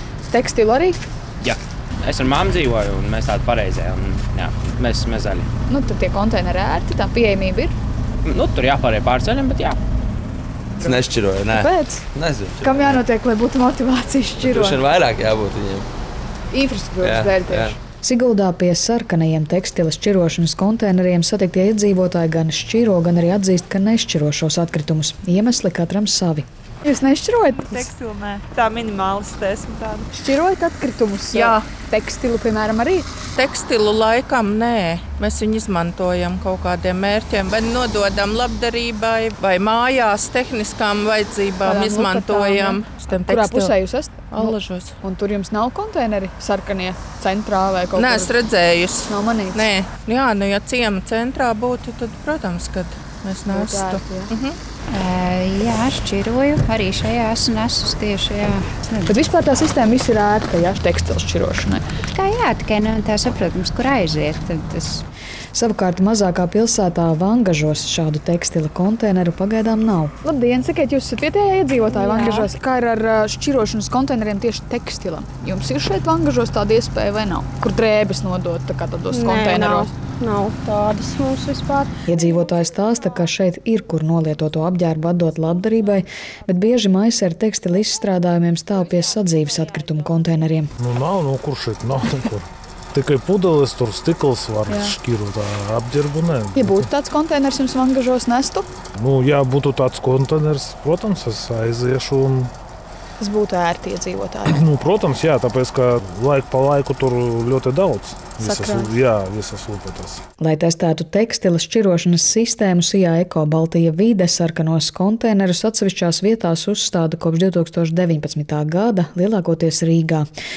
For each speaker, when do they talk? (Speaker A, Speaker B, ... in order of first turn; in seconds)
Speaker A: 0.2-1.0, 5.7-7.7, 10.8-12.0, 12.6-14.8, 16.5-17.8, 26.9-27.9, 30.1-33.0, 41.6-48.4, 49.0-49.7, 53.5-54.3, 59.1-61.8, 70.2-79.9, 94.7-95.0, 96.5-98.7, 103.2-104.7, 108.4-108.9
Speaker B: 2.1-5.4, 8.3-9.8
Speaker C: 2.1-2.9, 27.6-30.1
Speaker D: 10.8-13.0, 14.4-15.9, 17.0-17.8
Speaker E: 18.0-26.4, 65.5-70.1, 82.1-90.7, 110.4-120.3
Speaker F: 31.3-31.6, 33.4-43.7, 44.3-44.9, 48.0-54.6
Speaker G: 54.9-59.3, 62.1-65.0
Speaker H: 71.9-72.5, 79.1-81.9
Speaker I: 90.8-96.9, 99.0-102.5, 104.5-110.2